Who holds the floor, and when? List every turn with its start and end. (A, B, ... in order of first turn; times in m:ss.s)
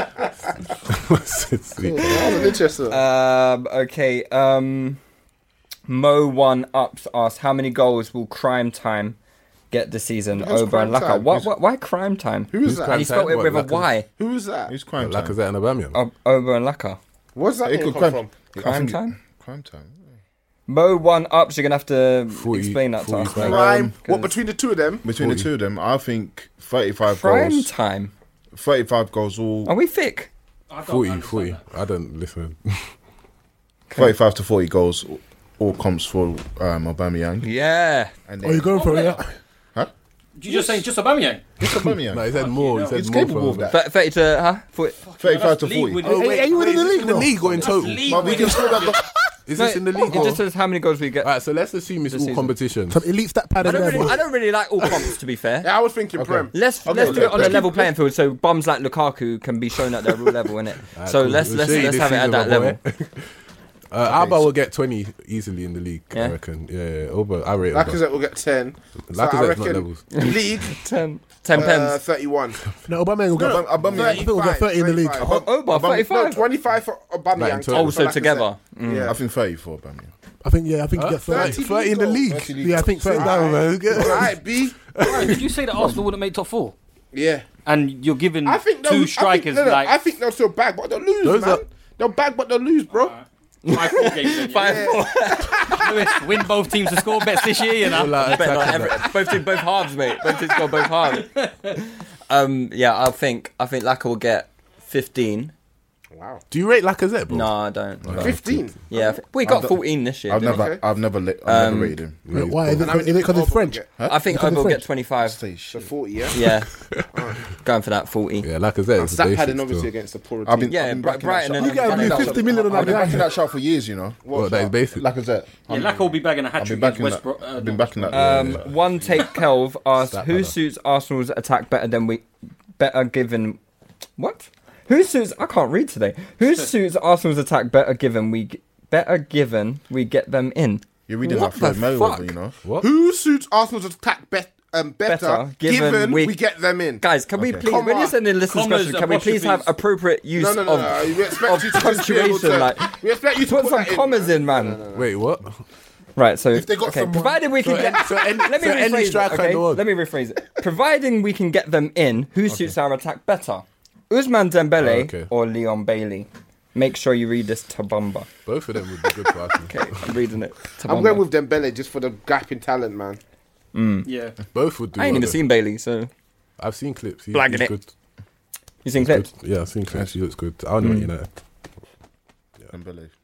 0:00.9-0:02.4 A
0:01.9-0:03.0 B
0:02.9-0:05.0 C
0:05.9-0:09.2 C
0:09.7-0:14.0 C
0:10.4-0:11.3 B
0:12.5-0:13.0 B
0:12.6-0:14.0 A
0:14.2-0:14.7 B
0:14.7-0:15.4 D
0:15.0-0:16.0 A
0:15.9-0:17.0 C
0:17.4-0:18.3 B
0:17.6-0:20.1 D
0:18.6-0:19.1 C
0:20.7-0:23.6 C
0:22.3-0:23.8 A
0:23.4-0:24.3 D
0:23.4-0:25.0 B
0:25.0-0:27.7 D
0:25.2-0:25.5 A
0:27.0-0:28.1 C
0:28.5-0:29.7 D
0:29.7-0:30.3 C
0:30.7-0:31.6 E
0:30.8-0:32.9 A
0:34.0-0:37.5 D
0:37.4-0:38.1 C
0:38.3-0:39.0 D
0:38.4-0:39.4 F
0:38.7-0:39.2 E
0:40.4-0:41.4 E
0:41.6-0:43.8 D
0:41.6-0:43.8 A
0:42.4-0:43.0 E
0:43.7-0:45.0 C
0:45.0-0:47.0 E
0:45.2-0:46.1 D
0:46.0-0:48.4 A
0:46.0-0:47.7 F
0:47.6-0:49.0 E
0:47.9-0:49.1 D
0:48.3-0:48.9 F
0:49.5-0:50.4 A
0:49.6-0:51.3 C
0:51.2-0:53.0 A
0:52.1-0:52.6 C
0:52.9-0:54.2 F
0:53.6-0:55.7 C
0:53.7-0:54.2 A
0:55.6-0:57.8 B
0:56.2-0:57.9 D
0:56.5-1:02.8 C
1:01.0-1:03.3 A
1:03.9-1:08.0 A
1:07.7-1:10.8 B
1:09.1-1:10.1 A
1:10.1-1:12.0 C
1:11.5-1:12.6 B
1:12.9-1:15.3 F
1:13.4-1:14.3 D
1:13.9-1:19.2 B
1:15.2-1:16.0 D
1:15.2-1:16.4 C
1:17.4-1:18.0 A
1:17.7-1:19.1 C
1:19.0-1:20.1 D
1:20.4-1:21.6 F
1:21.0-1:25.9 A
1:21.3-1:25.0 B
1:22.3-1:23.3 D
1:22.6-1:23.6 F
1:25.1-1:26.8 E
1:27.1-1:27.5 B
1:27.6-1:29.9 E
1:28.4-1:33.2 B
1:31.2-1:31.6 A
1:32.9-1:35.0 E
1:33.6-1:36.2 C
1:34.6-1:35.5 B
1:35.6-1:38.8 E
1:37.9-1:39.5 A
1:38.0-1:45.5 C
1:41.1-1:41.8 E
1:46.1-1:46.4 B
1:46.5-1:47.6 A
1:47.3-1:48.4 C
1:48.0-1:48.5 D
1:48.1-1:48.6 A
1:48.2-1:49.2 B
1:48.9-1:50.7 C
1:49.4-1:52.3 D
1:50.4-1:50.8 B
1:51.4-1:52.0 C
1:52.3-1:53.0 A
1:52.3-1:54.9 F
1:52.8-1:53.9 B
1:54.0-1:54.2 D
1:54.1-1:55.4 C
1:55.2-1:55.9 D
1:55.7-1:56.4 B
1:56.3-1:56.7 C
1:57.1-1:57.4 B
1:57.6-1:58.5 C
1:58.4-1:59.9 A
1:59.0-2:01.1 B
2:00.4-2:04.4 D
2:00.7-2:03.1 C
2:01.6-2:03.3 F
2:01.9-2:02.3 B
2:04.2-2:04.7 B
2:04.3-2:05.0 A
2:04.9-2:08.7 D
2:05.7-2:08.2 E
2:08.1-2:12.2 C
2:08.1-2:09.1 A
2:10.0-2:10.6 A
2:12.8-2:13.6 C
2:14.2-2:22.3 C
2:21.1-2:22.6 D
2:21.4-2:21.8 F
2:22.6-2:22.9 A
2:22.8-2:27.0 B
2:25.1-2:26.4 C
2:27.0-2:34.8 C
2:27.4-2:27.7 D
2:27.6-2:28.2 B
2:28.5-2:29.7 E
2:30.4-2:35.1 B
2:34.9-2:35.6 A
2:36.2-2:48.3 C
2:36.5-2:37.5 F
2:37.6-2:39.9 A
2:44.8-2:45.3 A
2:48.4-2:49.8 A
2:49.7-2:51.2 C
2:50.8-2:53.2 B
2:53.7-2:54.1 C
2:54.0-2:54.4 E
2:54.5-2:55.4 A
2:55.0-2:56.1 C
2:56.6-2:57.9 A
2:57.3-2:57.7 C
2:58.8-2:59.3 C
2:59.0-3:01.3 A
3:00.8-3:01.1 C
3:02.7-3:03.1 D